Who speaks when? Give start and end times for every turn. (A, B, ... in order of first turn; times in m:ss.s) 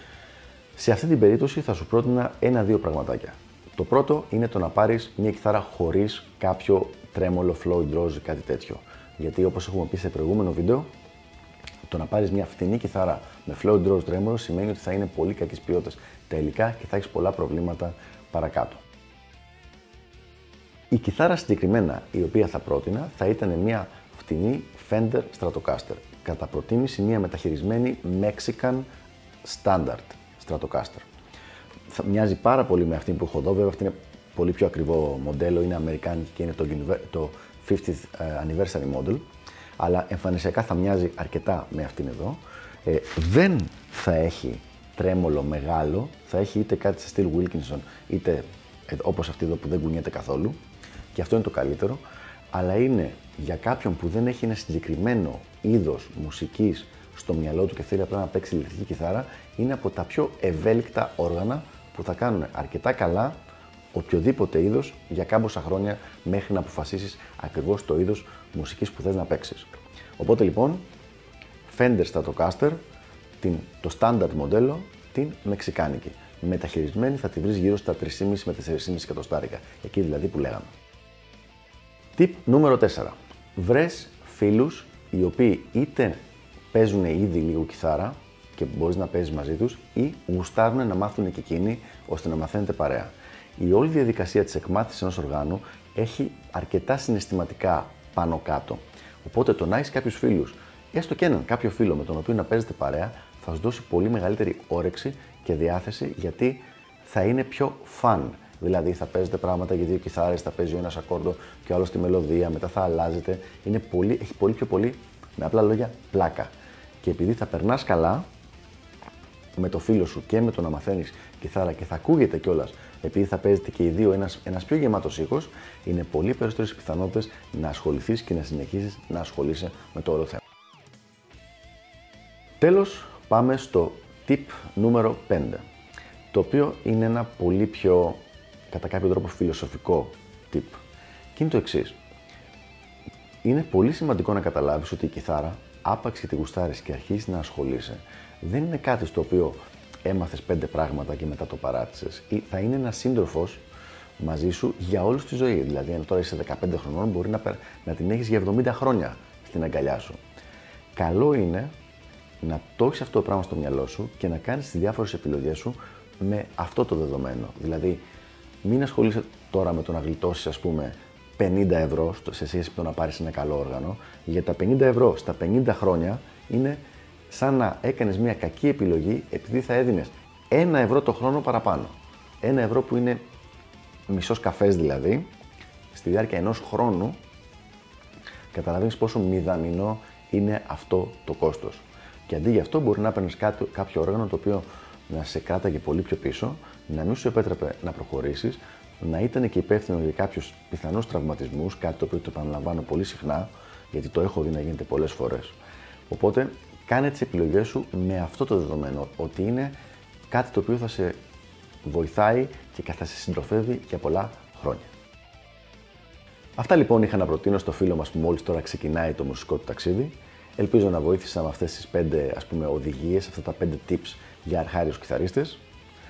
0:00.8-0:10.9 A
0:11.9-0:18.8 A
0:20.9-0:28.9 A
0:29.4-0:31.1 A
0:31.9-0:39.2 A
0:39.8-0:50.6 A
0:51.1-1:03.4 A
1:03.9-1:10.8 A
1:11.7-1:12.8 A
1:13.4-1:20.7 A
1:22.2-1:26.2 A
1:26.7-1:58.3 A
1:59.6-2:10.4 A
2:12.6-2:15.6 A
2:16.3-2:20.8 A
2:21.3-2:22.0 A
2:23.4-2:33.6 A
2:34.2-2:40.2 A
2:41.0-2:41.7 A
2:42.4-2:48.0 A
2:48.6-3:03.2 A
3:04.1-3:05.3 A
3:05.9-3:07.2 A
3:08.5-3:25.6 A
3:26.1-3:29.8 A
3:30.3-3:31.2 A
3:31.8-3:34.9 A
3:36.6-3:45.6 A